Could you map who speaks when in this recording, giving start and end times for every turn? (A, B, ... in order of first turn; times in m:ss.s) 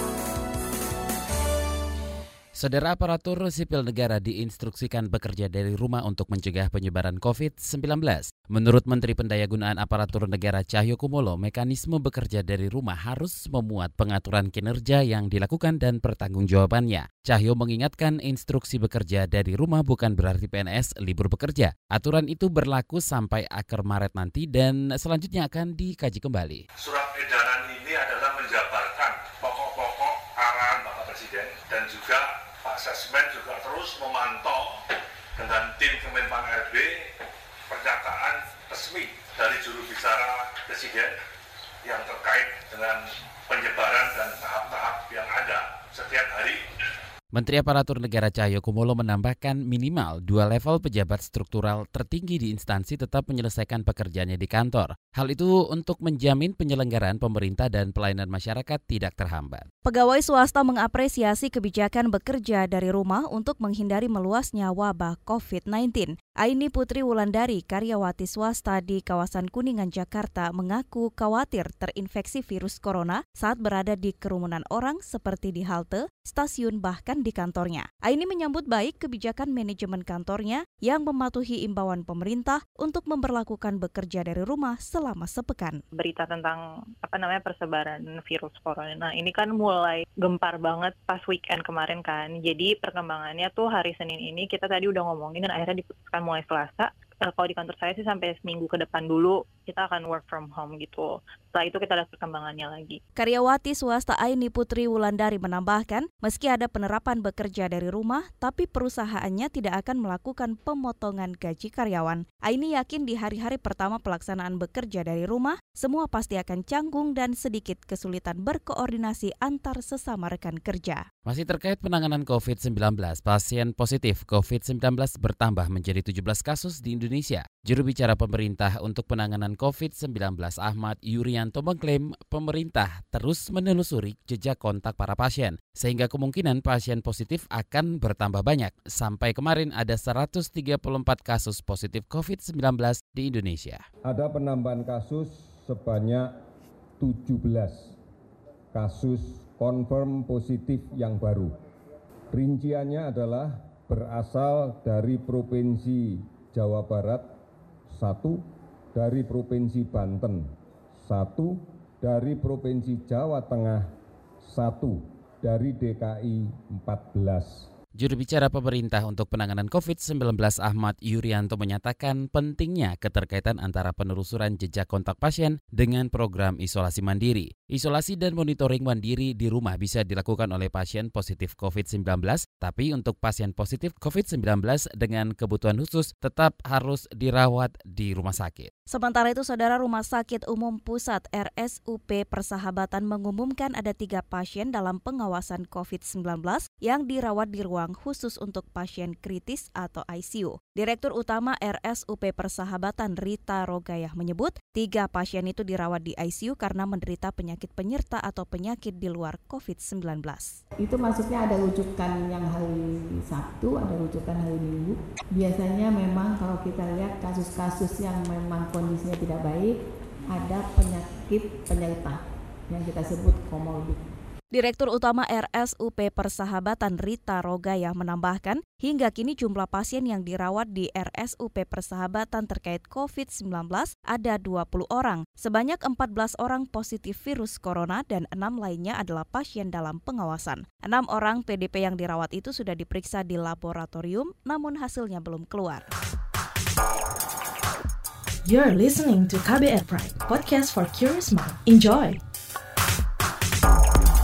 0:02.6-0:26.6 A
0:26.8-0:34.7 B
0:35.4-0:36.9 B
0:37.7-0:41.1 B
0:41.9-0:46.6 B
0:47.3-0:59.7 A
0:59.8-1:25.8 C
1:25.9-1:43.0 D
1:43.2-2:01.0 C
2:01.3-2:23.8 A
2:24.1-2:26.3 E
2:27.0-2:28.0 E
2:28.7-2:31.5 E
2:32.3-2:37.3 E
2:37.9-2:38.4 E
2:38.9-2:40.5 E
2:41.0-2:43.9 E
2:44.4-2:47.7 E
2:48.0-3:08.7 A
3:08.9-3:30.6 C
3:30.8-3:44.2 F
3:44.5-4:05.9 C
4:08.4-4:12.2 G